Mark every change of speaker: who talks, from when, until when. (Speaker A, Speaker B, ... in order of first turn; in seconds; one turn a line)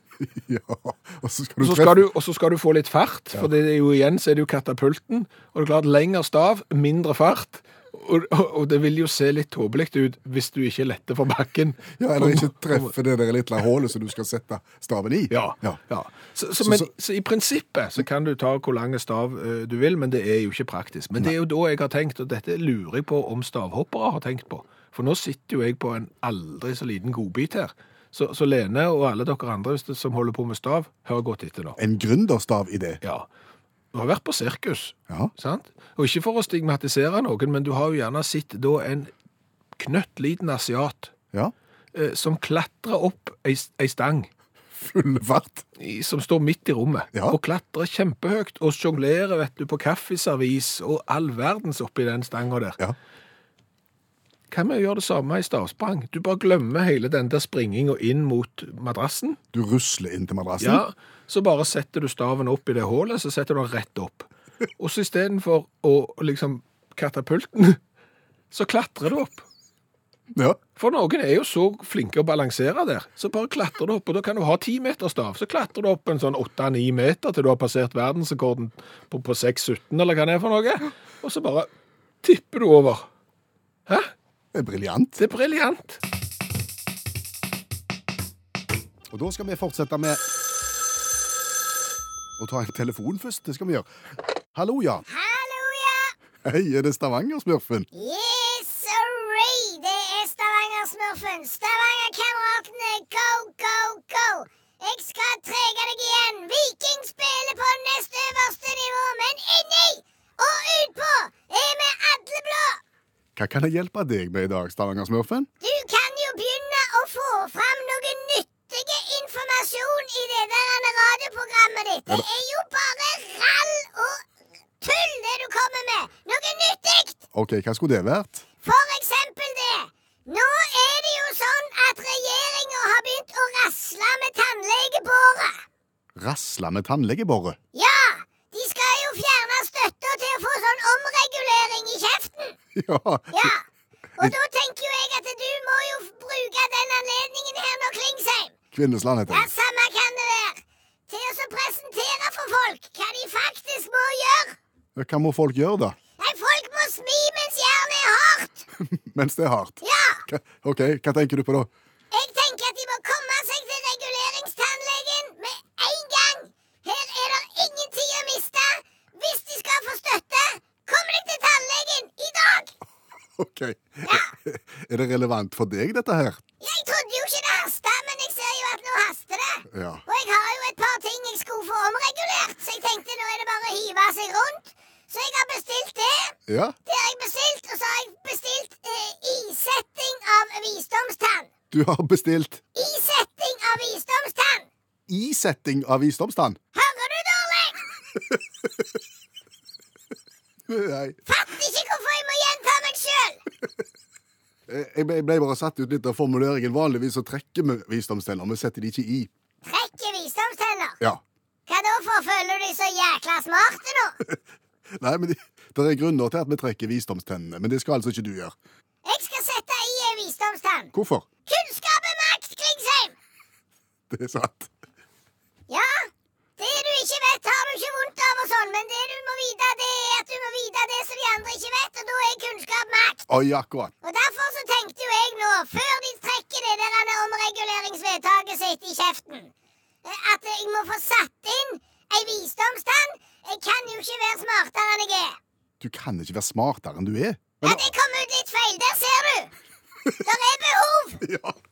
Speaker A: 0.2-2.1
Speaker B: 1.6-12.9
Speaker A: 12.0-15.8
Speaker B: 15.3-31.8
Speaker A: 16.6-16.9
Speaker A: 31.8-33.0
Speaker B: 33.0-33.3
Speaker B: 33.9-39.1
Speaker B: 39.8-41.1
Speaker B: 41.9-44.3
Speaker A: 44.8-45.6
Speaker B: 45.8-52.8
Speaker A: 47.1-47.4
Speaker B: 54.5-59.4
Speaker A: 59.5-60.8
Speaker B: 60.6-67.8
Speaker B: 68.5-69.5
Speaker A: 70.3-70.6
Speaker B: 70.8-81.7
Speaker B: 82.2-83.1
Speaker A: 84.5-85.2
Speaker B: 85.2-86.0
Speaker A: 89.1-90.2
Speaker A: 92.4-93.9
Speaker A: 94.5-95.0
Speaker C: 95.1-96.1
Speaker A: 96.4-97.9
Speaker C: 97.9-112.8
Speaker A: 113.4-115.5
Speaker C: 115.6-124.2
Speaker C: 124.8-127.2
Speaker A: 127.3-128.4
Speaker C: 128.6-135.6
Speaker A: 136.2-137.6
Speaker C: 137.7-142.6
Speaker A: 142.8-143.5
Speaker C: 143.3-143.6
Speaker C: 144.2-148.5
Speaker A: 148.7-149.5
Speaker C: 149.3-154.6
Speaker A: 155.0-156.0
Speaker C: 156.2-158.7
Speaker A: 158.8-161.7
Speaker C: 159.8-160.2
Speaker C: 162.1-172.7
Speaker A: 173.4-176.4
Speaker C: 174.1-174.3
Speaker C: 176.6-186.4
Speaker A: 179.7-180.0
Speaker A: 186.5-186.8
Speaker C: 186.9-191.5
Speaker A: 191.7-192.6
Speaker C: 192.8-194.7
Speaker A: 195.1-196.6
Speaker C: 196.8-197.8
Speaker A: 200.7-201.2
Speaker C: 201.3-203.4
Speaker A: 204.7-209.3
Speaker C: 209.6-211.0
Speaker C: 211.7-214.2
Speaker A: 214.9-218.6
Speaker C: 219.1-220.9
Speaker A: 220.9-221.3
Speaker C: 221.5-223.1
Speaker A: 224.1-224.7
Speaker C: 225.7-233.3
Speaker A: 233.3-233.9
Speaker C: 234.0-239.5
Speaker C: 240.0-245.4
Speaker A: 245.8-247.9
Speaker C: 247.6-249.5
Speaker C: 250.2-251.2
Speaker A: 251.2-251.6